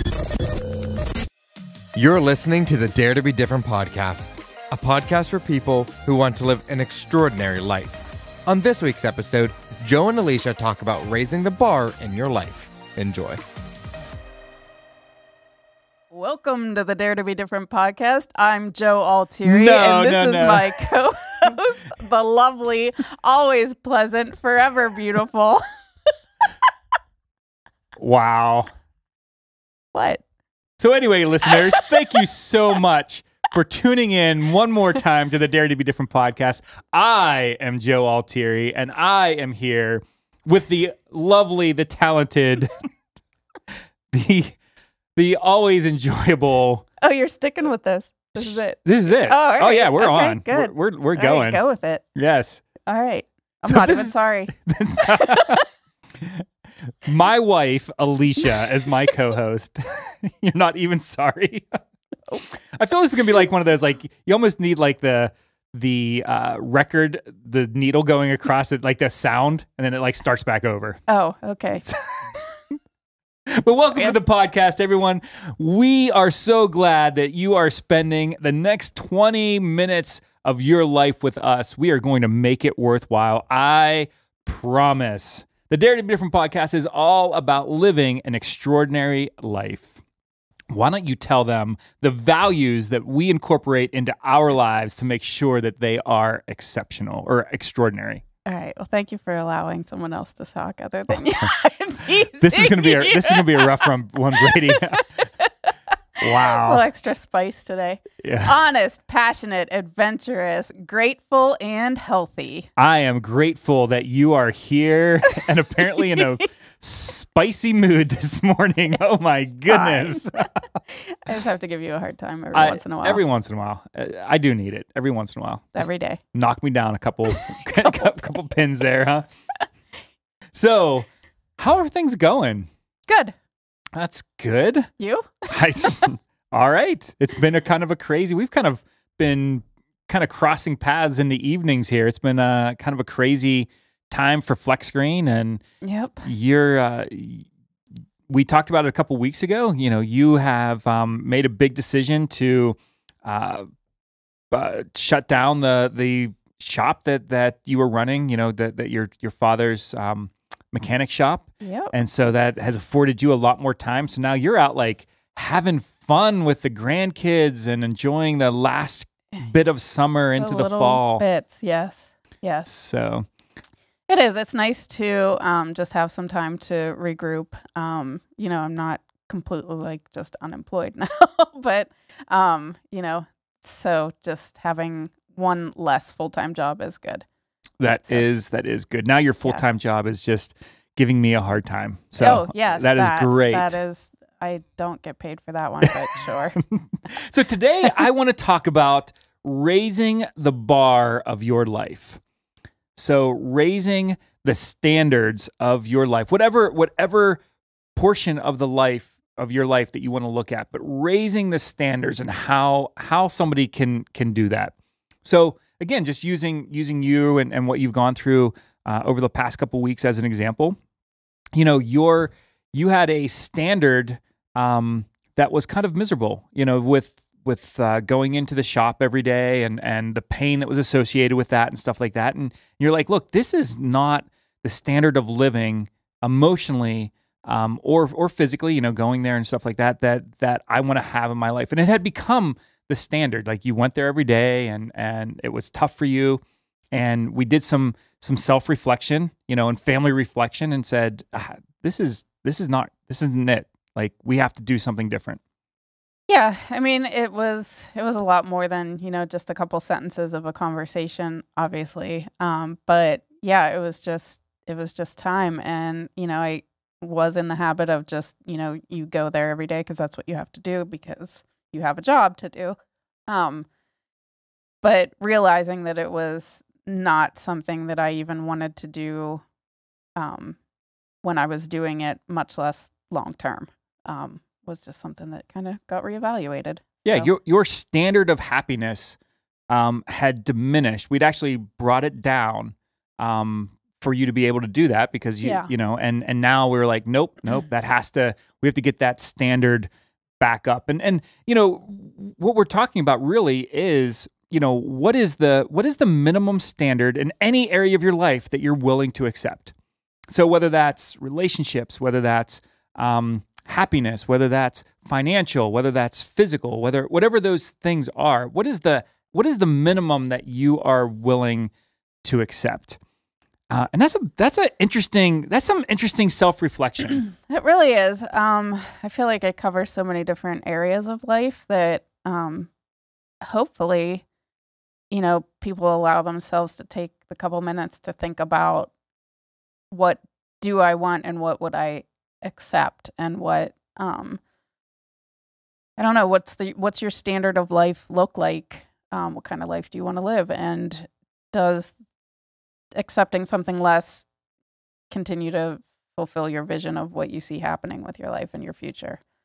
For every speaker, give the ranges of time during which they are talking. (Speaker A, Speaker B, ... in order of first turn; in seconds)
Speaker A: 1.9-13.4
Speaker B: 16.1-25.6, 29.9-30.2, 47.0-52.0, 52.8-55.6, 71.1-71.9, 98.5-103.9, 104.4-105.5, 106.4-112.7, 119.7-120.3, 120.9-123.2, 125.7-126.2, 127.4-128.1, 133.1-133.3, 135.0-136.0, 145.8-146.3, 161.6-161.9, 170.4-172.7, 174.1-187.3, 187.8-188.3, 192.2-196.6, 256.3-272.8, 273.3-273.7, 274.8-279.4, 280.2-280.6, 281.2-287.3, 295.4-295.7, 327.3-332.7, 333.4-334.2, 335.1-338.9, 339.9-344.4, 346.0-351.9, 353.0-354.3, 355.1-359.2
Speaker C: 19.4-20.8, 28.0-28.7, 30.8-42.8, 44.1-44.6, 45.2-46.9, 48.4-51.6, 52.1-52.6, 53.7-55.6, 56.2-56.5, 57.0-61.8, 62.8-71.0, 73.5-90.0, 90.7-98.2, 102.4-105.2, 106.2-106.8, 108.2-108.6, 112.8-120.6, 122.5-129.3, 130.5-132.7, 133.9-134.9, 135.5-145.6, 146.2-147.5, 148.3-153.7, 154.5-171.2, 172.7-173.3, 187.8-193.8, 196.6-202.2, 203.0-207.4, 208.0-220.8, 221.6-255.4, 287.1-289.2, 289.7-309.7, 310.3-321.7, 322.2-323.0, 323.7-327.2